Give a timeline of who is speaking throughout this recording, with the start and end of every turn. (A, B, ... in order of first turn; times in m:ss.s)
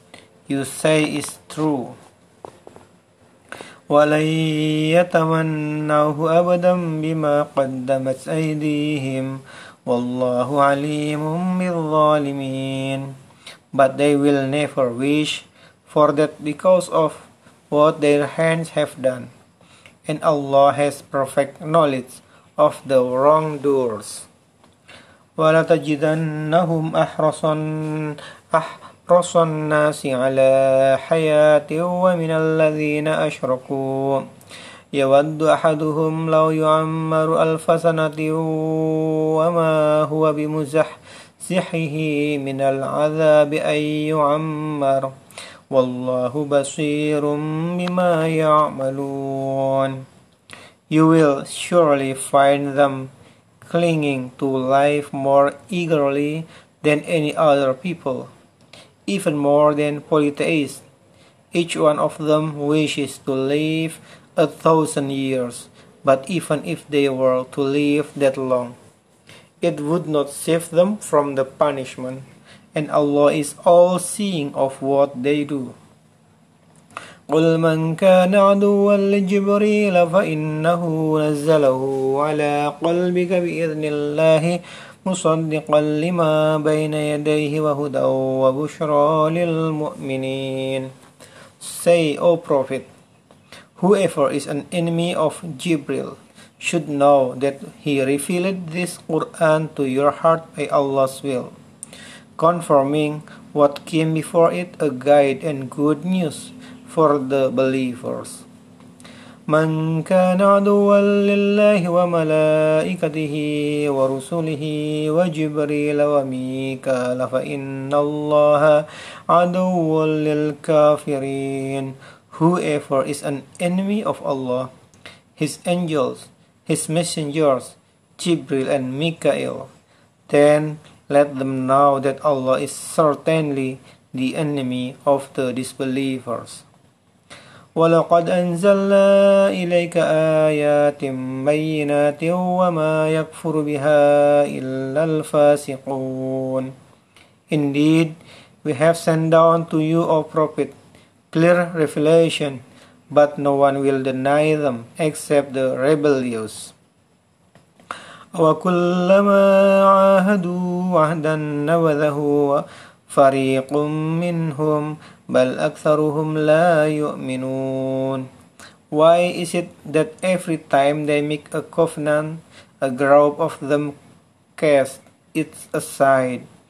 0:00.5-0:02.0 A
0:03.9-0:13.2 A
0:13.7-0:19.3 A
0:20.0-0:24.3 A
0:25.4-0:34.3 A
0:34.9-0:45.1 A
0:45.7-0:50.0 A
0:50.9-0:53.1 A
0:53.6-0:58.3 A
0:59.1-1:00.8 A
1:01.5-1:08.8 A
1:09.6-1:15.8 A
1:17.3-1:30.9 A
1:31.6-1:32.9 A
1:33.8-1:41.5 A
1:42.4-1:48.4 A
1:49.5-2:04.7 A
2:05.4-2:09.7 A
2:10.3-2:16.6 A
2:17.8-2:26.7 A
2:27.5-2:30.7 A
2:31.3-2:36.7 A
2:38.3-2:48.3 A
2:48.9-2:54.0 A
2:54.6-2:56.5 A